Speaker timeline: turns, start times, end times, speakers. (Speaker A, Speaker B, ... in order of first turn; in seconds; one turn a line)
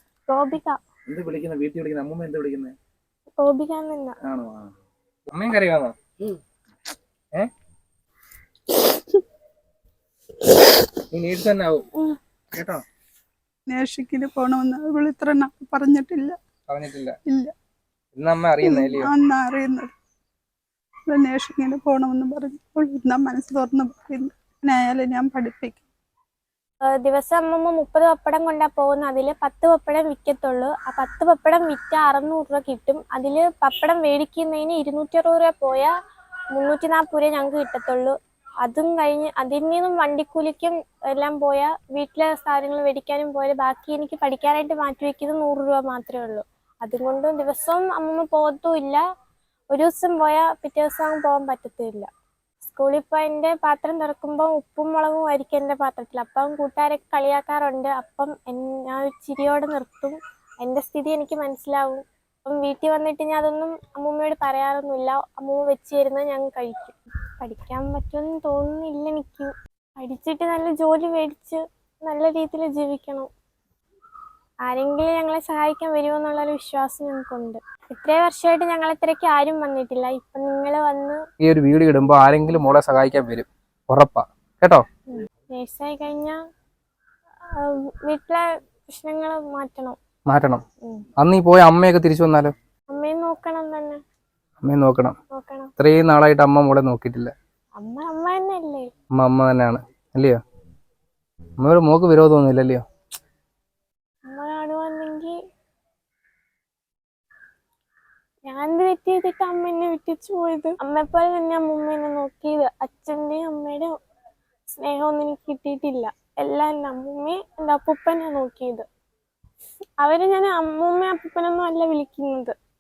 Speaker A: 0.3-0.8
Speaker B: 1.1-2.7
Speaker C: 1.6-2.6
Speaker A: 3.4-4.2
Speaker B: 4.3-4.6
Speaker C: 5.3-5.9
Speaker C: 11.1-11.9
Speaker C: 12.5-12.8
Speaker D: 13.7-16.4
Speaker C: 16.7-17.1
Speaker D: 17.3-17.5
Speaker C: 18.1-19.1
Speaker D: 18.6-19.9
Speaker D: 21.1-25.8
Speaker A: 26.9-35.9
Speaker A: 36.5-49.0
Speaker A: 49.7-52.1
Speaker A: 52.6-73.3
Speaker A: 74.7-81.2
Speaker C: 81.4-84.8
Speaker A: 85.1-86.4
Speaker A: 87.5-90.0
Speaker C: 90.3-90.6
Speaker C: 91.2-92.5
Speaker A: 92.9-94.0
Speaker C: 94.6-95.2
Speaker A: 95.3-95.7
Speaker C: 95.8-97.3
Speaker A: 97.8-98.9
Speaker C: 99.2-100.4
Speaker C: 101.6-102.8
Speaker A: 104.3-105.4
Speaker A: 108.5-113.9
Speaker A: 114.7-118.9
Speaker A: 120.0-122.5